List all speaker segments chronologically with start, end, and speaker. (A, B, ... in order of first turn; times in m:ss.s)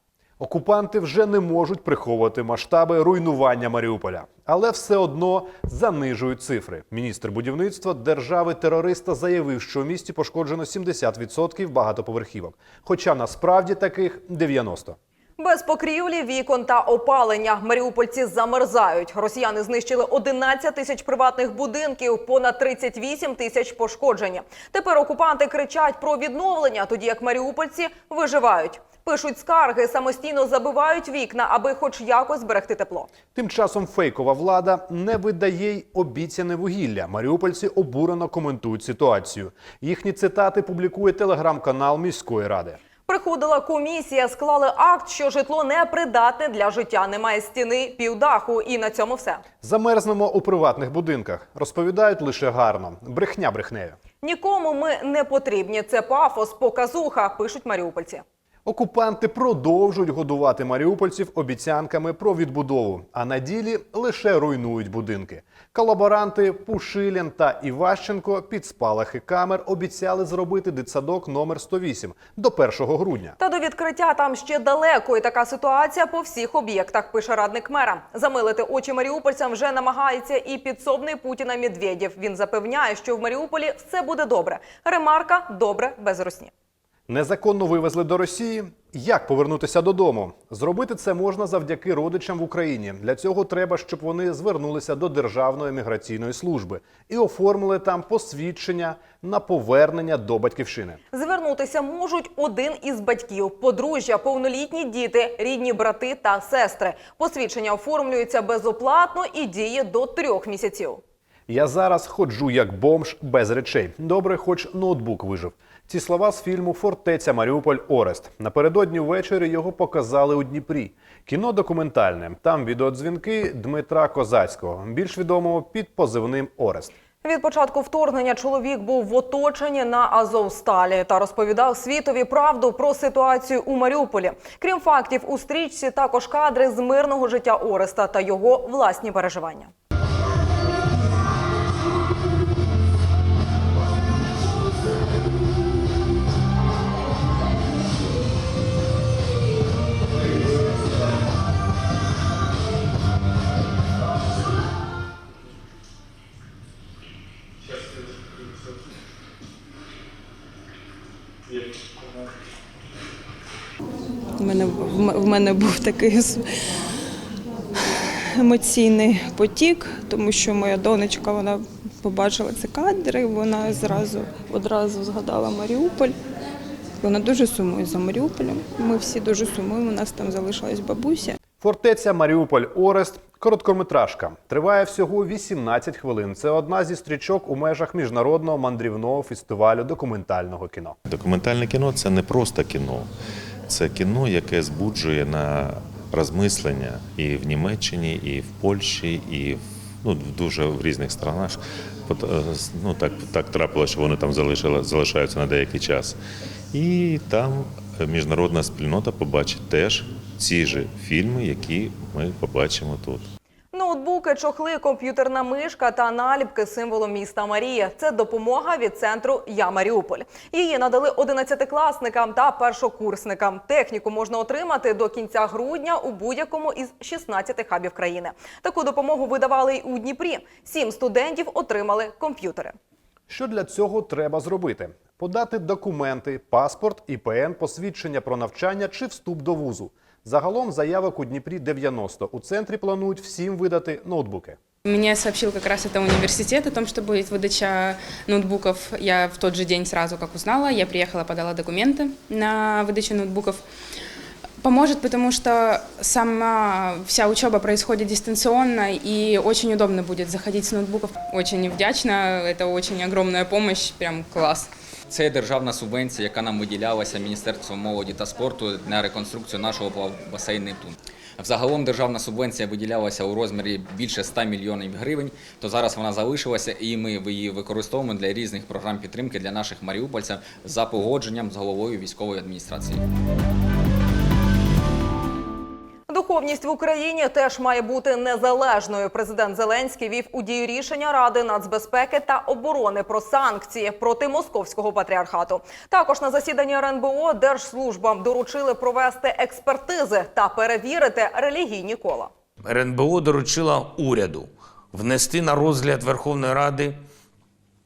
0:00.4-0:15.0 A
0:15.4-0:33.1 B
0:33.3-0:42.8 A
0:43.0-0:49.4 B
0:49.6-0:54.0 A
0:54.2-0:58.2 B
0:58.6-1:13.4 A
1:13.4-1:26.5 B
1:27.1-1:41.0 A
1:41.1-1:51.0 B
1:51.5-2:06.9 A
2:07.2-2:19.7 B
2:44.4-2:46.4 C
2:48.3-2:56.2 C
2:57.0-3:01.4 C
3:01.6-3:11.0 A
3:11.1-3:13.1 D
3:13.7-3:26.2 D
3:26.7-3:33.3 D
3:33.7-3:52.7 B
3:53.3-4:04.6 A
4:04.8-4:13.6 E
4:14.6-4:24.7 E
4:25.1-4:43.0 F
4:46.1-5:02.3 B
5:02.6-5:07.0 G